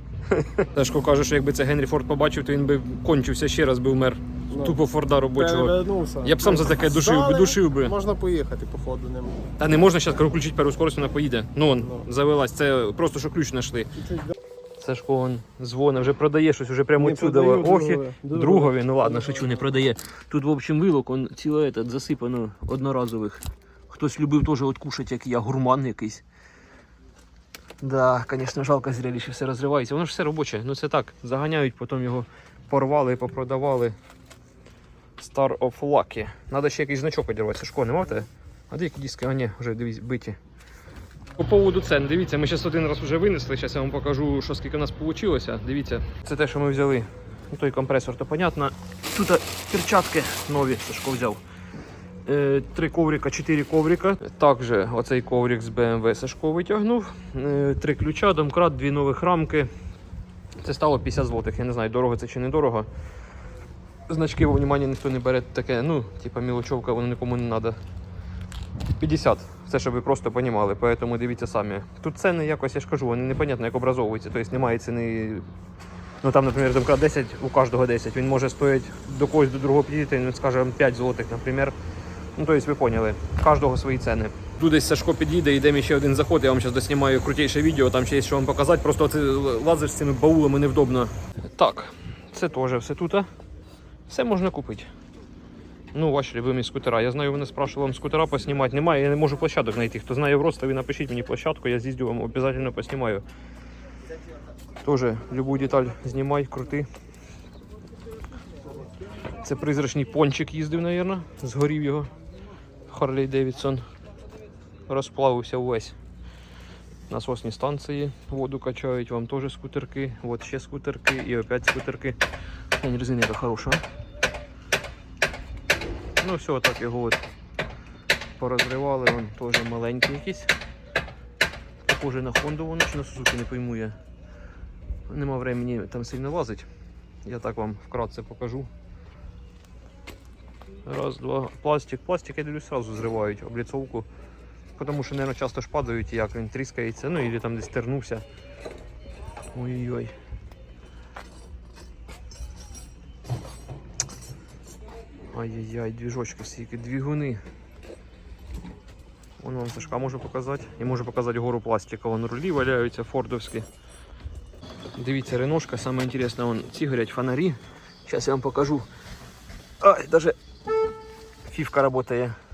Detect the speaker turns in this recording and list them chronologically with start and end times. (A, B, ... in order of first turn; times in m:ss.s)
0:00.3-0:07.9 A
0:04.5-0:04.8 B
0:05.3-0:09.5 B
0:09.6-0:13.9 A
0:11.8-0:12.1 B
0:14.0-0:14.3 B
0:14.8-0:26.2 A
0:17.0-0:19.6 B
0:27.8-0:33.9 A
0:35.2-0:40.4 A
0:41.4-0:51.4 A
0:52.2-0:59.7 A
1:00.6-1:02.9 A
1:04.1-1:07.8 A
1:09.0-1:15.4 A
1:16.2-1:21.7 A
1:22.4-1:33.3 A
1:34.1-1:34.9 A
1:35.9-1:43.2 A
1:44.8-1:46.9 A
1:49.4-1:52.1 A
1:52.9-1:53.8 A
1:54.9-1:56.0 A
1:57.1-2:02.2 A
2:02.8-2:03.8 A
2:06.2-2:07.2 A
2:08.4-2:10.5 A
2:11.8-2:14.0 A
2:15.1-2:16.7 A
2:17.2-2:18.7 A
2:20.8-2:24.1 A
2:24.8-2:28.2 A
2:29.5-2:30.1 A
2:35.3-2:37.4 A
2:39.4-2:43.6 A
2:45.0-2:48.9 A
2:49.8-2:50.4 A
2:51.5-2:52.4 A